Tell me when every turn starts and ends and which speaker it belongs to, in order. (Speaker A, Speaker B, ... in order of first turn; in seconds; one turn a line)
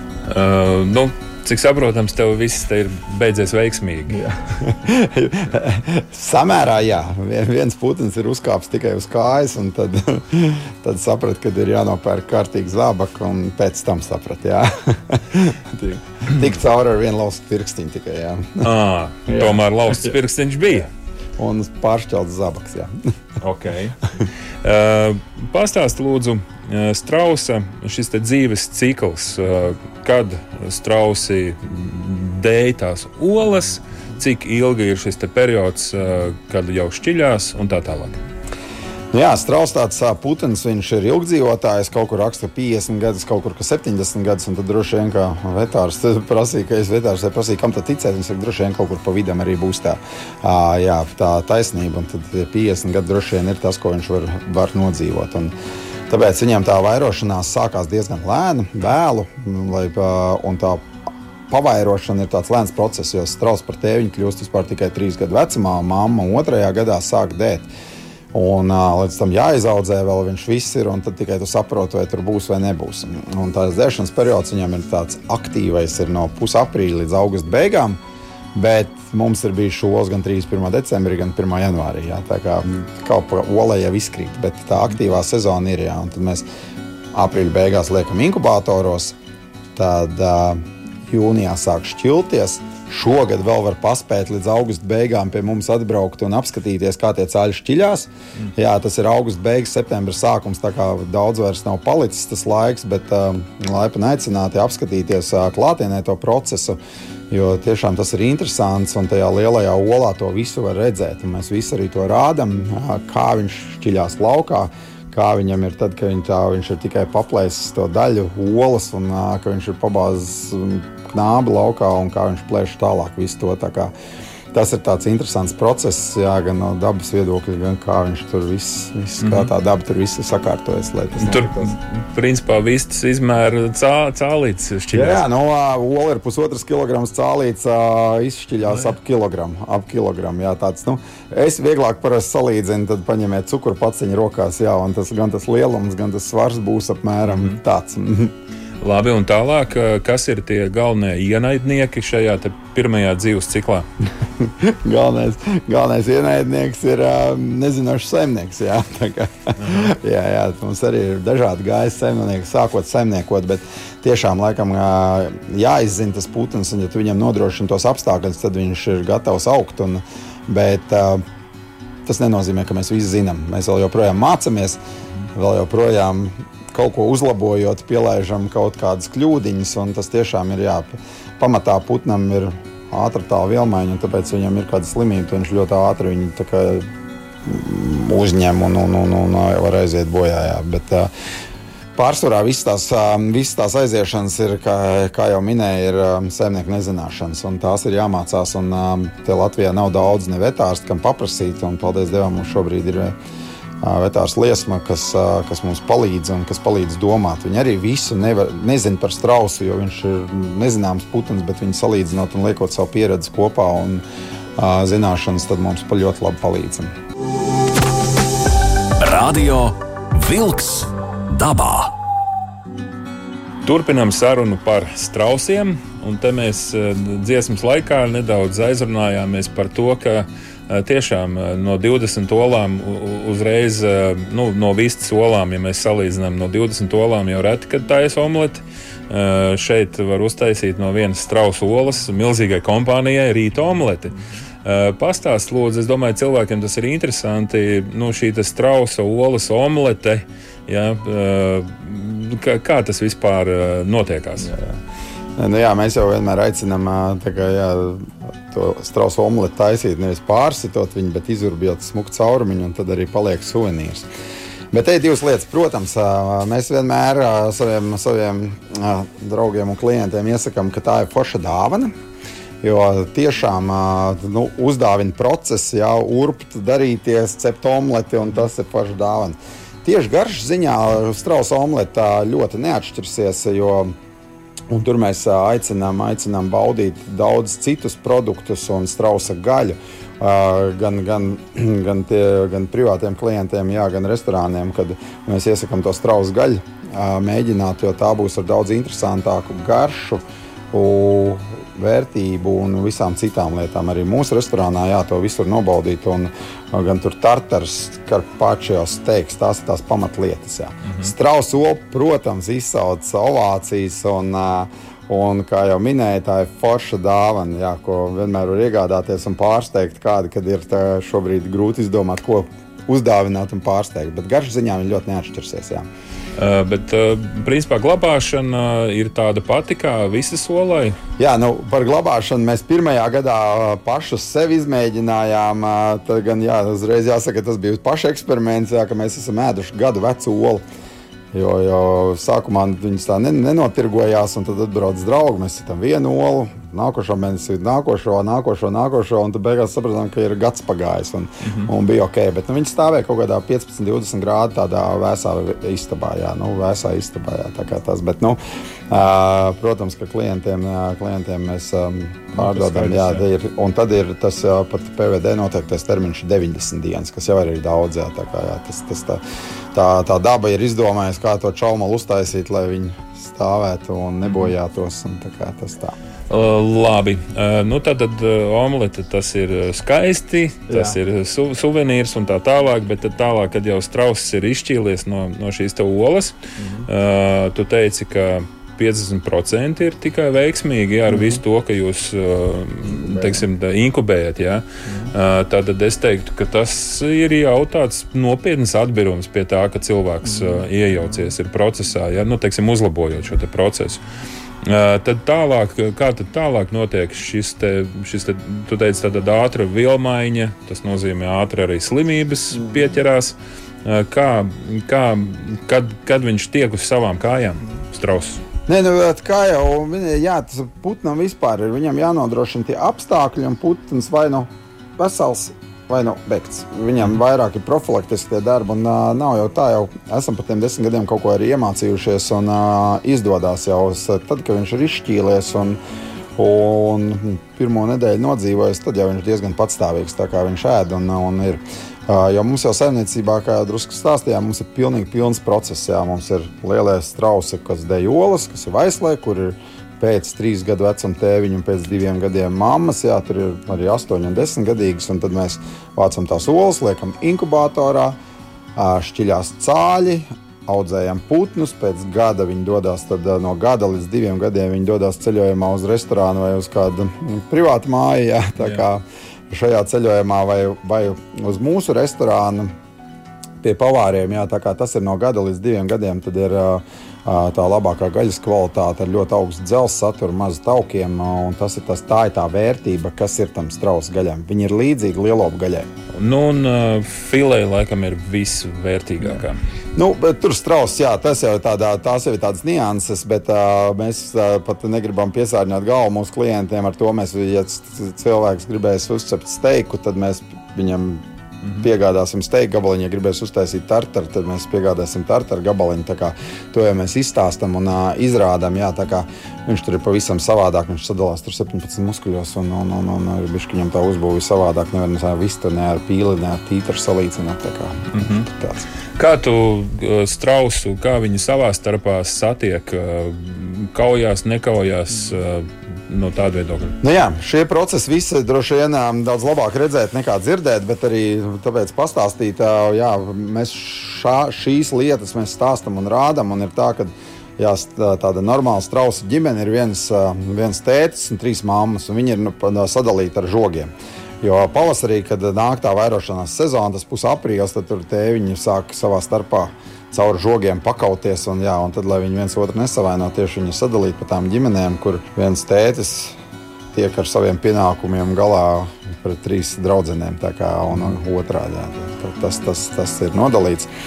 Speaker A: 0.2-4.2
Speaker B: 4.2-18.7
Speaker A: 18.6-20.9
Speaker B: 19.3-20.1
Speaker B: 21.4-22.9
Speaker A: 23.4-24.0
Speaker A: 24.6-38.2
Speaker B: 39.1-55.5
Speaker B: 56.1-60.9
Speaker B: 61.5-67.7
Speaker B: 68.3-78.0
Speaker B: 78.5-86.4
Speaker B: 87.1-89.2
Speaker B: 89.7-106.8
Speaker B: 107.3-123.9
Speaker B: 124.5-131.7
Speaker A: 129.2-129.5
Speaker A: 131.2-135.2
Speaker B: 134.9-148.3
Speaker A: 147.3-147.6
Speaker A: 148.8-153.9
Speaker B: 154.4-171.2
Speaker A: 159.6-159.9
Speaker B: 172.1-174.8
Speaker B: 175.3-186.9
Speaker B: 187.4-191.1
Speaker B: 191.9-203.1
Speaker B: 203.8-214.0
Speaker B: 214.6-216.9
Speaker C: 219.0-221.9
Speaker A: 223.6-254.5
Speaker B: 254.5-254.8
Speaker B: 255.4-264.1
Speaker B: 264.7-271.9
Speaker B: 272.6-283.9
Speaker B: 284.7-325.9
Speaker A: 326.3-331.0
Speaker B: 331.2-340.6
Speaker B: 341.3-369.2
Speaker A: 362.3-363.2
Speaker B: 369.7-375.9
Speaker A: 376.3-404.0
Speaker B: 380.7-380.9
Speaker A: 404.6-418.4
Speaker B: 418.7-435.8
Speaker B: 436.4-458.2
Speaker B: 458.8-472.7
Speaker B: 473.6-485.9
Speaker A: 486.1-489.6
Speaker B: 489.9-501.2
Speaker B: 501.8-518.9
Speaker A: 518.1-518.5
Speaker A: 519.2-527.0
Speaker B: 527.0-556.4
Speaker B: 556.9-563.9